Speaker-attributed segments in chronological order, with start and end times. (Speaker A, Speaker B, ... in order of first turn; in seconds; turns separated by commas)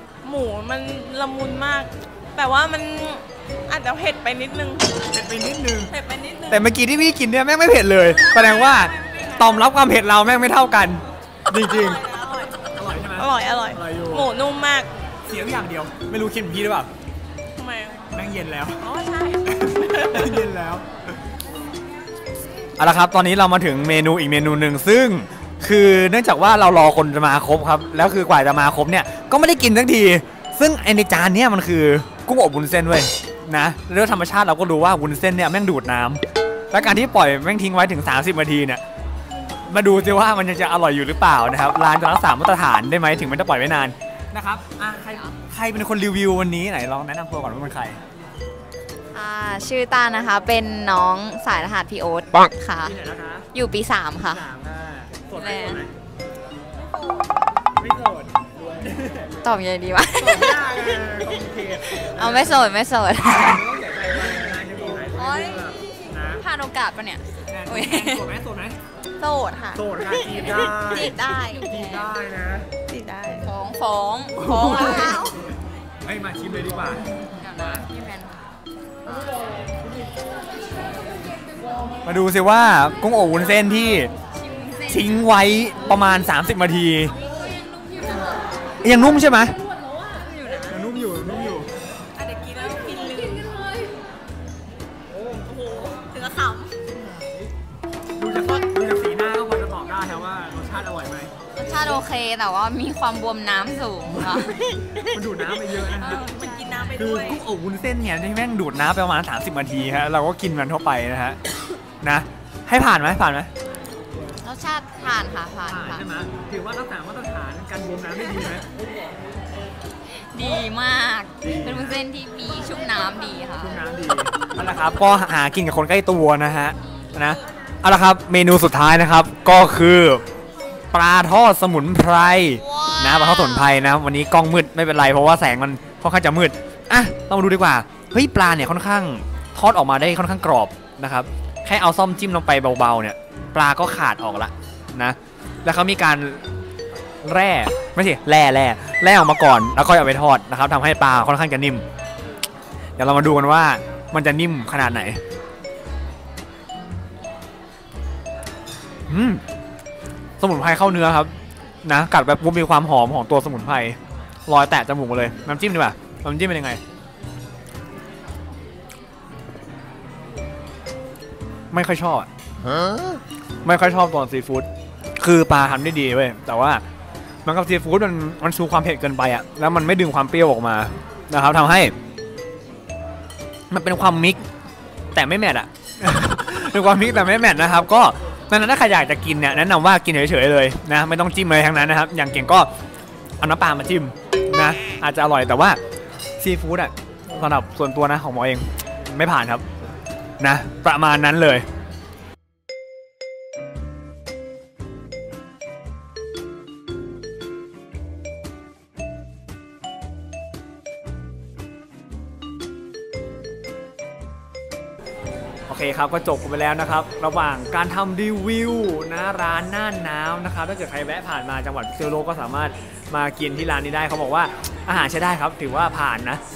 Speaker A: 0.2-4.9, Speaker B: 5.0-5.9, Speaker A: 5.9-6.7, Speaker B: 6.5-14.3, Speaker A: 8.2-9.3, Speaker A: 11.5-14.9, Speaker B: 15.2-16.9, Speaker A: 17.6-18.1, Speaker B: 18.1-18.9, Speaker A: 18.8-20.4, Speaker B: 19.4-20.9, Speaker B: 22.8-38.8, Speaker B: 39.7-48.0, Speaker C: 49.1-53.0, Speaker B: 52.8-53.5, Speaker C: 53.5-54.4, Speaker B: 54.2-55.9, Speaker C: 55.4-55.8, Speaker B: 57.8-59.3, Speaker C: 59.4-60.8, Speaker B: 60.2-62.7, Speaker C: 61.9-63.6, Speaker B: 63.3-66.4, Speaker C: 65.1-65.6, Speaker C: 66.4-68.2, Speaker B: 67.4-68.8, Speaker A: 69.2-71.7, Speaker B: 69.7-72.7, Speaker C: 70.8-72.0, Speaker A: 72.9-73.5, Speaker C: 73.4-75.3, Speaker B: 74.3-75.2, Speaker A: 74.9-75.3, Speaker B: 76.0-77.9, Speaker C: 77.4-78.3, Speaker B: 82.0-84.1, Speaker C: 84.3-85.3, Speaker B: 84.9-87.1, Speaker B: 88.8-89.6, Speaker B: 90.7-91.7, Speaker A: 92.2-93.7, Speaker A: 95.1-96.8, Speaker B: 98.2-101.3, Speaker C: 101.5-104.5, Speaker B: 104.1-106.3, Speaker A: 105.9-107.4, Speaker C: 106.4-106.8, Speaker B: 106.9-111.4, Speaker B: 112.0-113.5, Speaker C: 114.4-116.0, Speaker B: 115.7-118.7, Speaker C: 120.3-123.8, Speaker B: 121.4-122.0, Speaker B: 123.6-130.2, Speaker B: 130.9-146.4, Speaker B: 147.2-151.8, Speaker B: 153.0-155.2, Speaker B: 159.1-159.4, Speaker B: 160.4-161.3, Speaker B: 161.8-166.8, Speaker B: 171.7-172.3, Speaker B: 173.6-176.8, Speaker B: 177.4-181.9, Speaker B: 183.7-184.4, Speaker B: 185.1-192.7, Speaker B: 193.4-195.8, Speaker B: 196.4-199.6, Speaker B: 200.4-201.6, Speaker B: 215.7-226.4